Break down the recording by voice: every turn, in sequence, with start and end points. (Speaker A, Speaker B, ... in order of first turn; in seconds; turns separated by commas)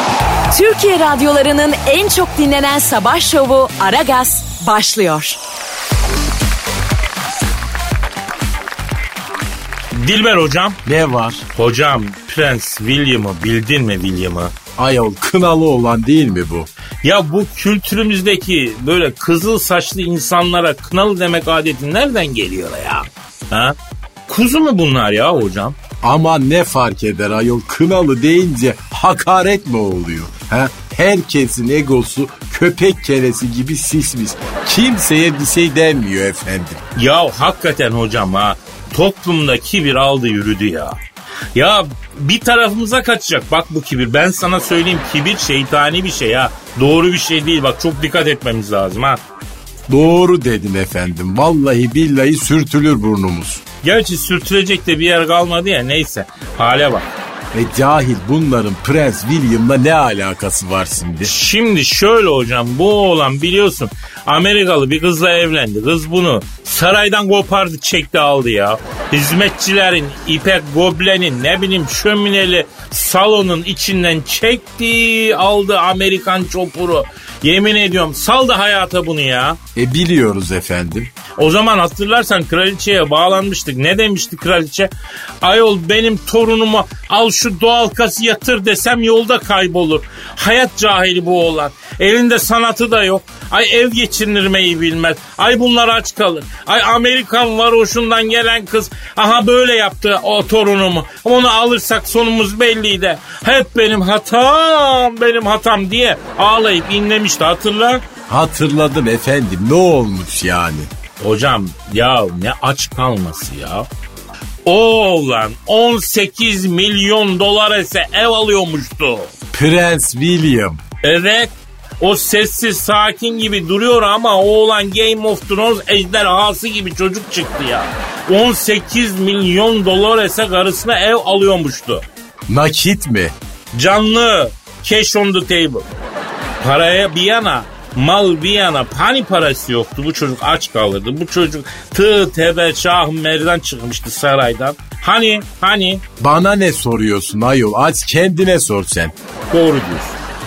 Speaker A: 0.5-5.4, Speaker B: 9.9-10.8, Speaker C: 10.8-11.4, Speaker B: 11.6-14.6, Speaker C: 14.8-16.7, Speaker B: 17.0-23.8, Speaker B: 24.3-25.8, Speaker C: 26.0-36.8, Speaker B: 37.0-41.0, Speaker B: 41.5-49.2, Speaker C: 49.9-53.6, Speaker B: 53.8-57.1, Speaker C: 57.5-61.3, Speaker B: 61.2-79.6, Speaker C: 79.8-81.1, Speaker B: 81.4-84.9, Speaker B: 85.4-108.0, Speaker C: 108.3-110.9, Speaker B: 111.2-113.9, Speaker B: 114.7-119.3, Speaker C: 119.5-120.8, Speaker B: 121.0-132.0, Speaker C: 132.5-133.3, Speaker B: 133.7-135.9, Speaker B: 136.6-146.0, Speaker C: 146.2-149.1, Speaker B: 149.5-150.2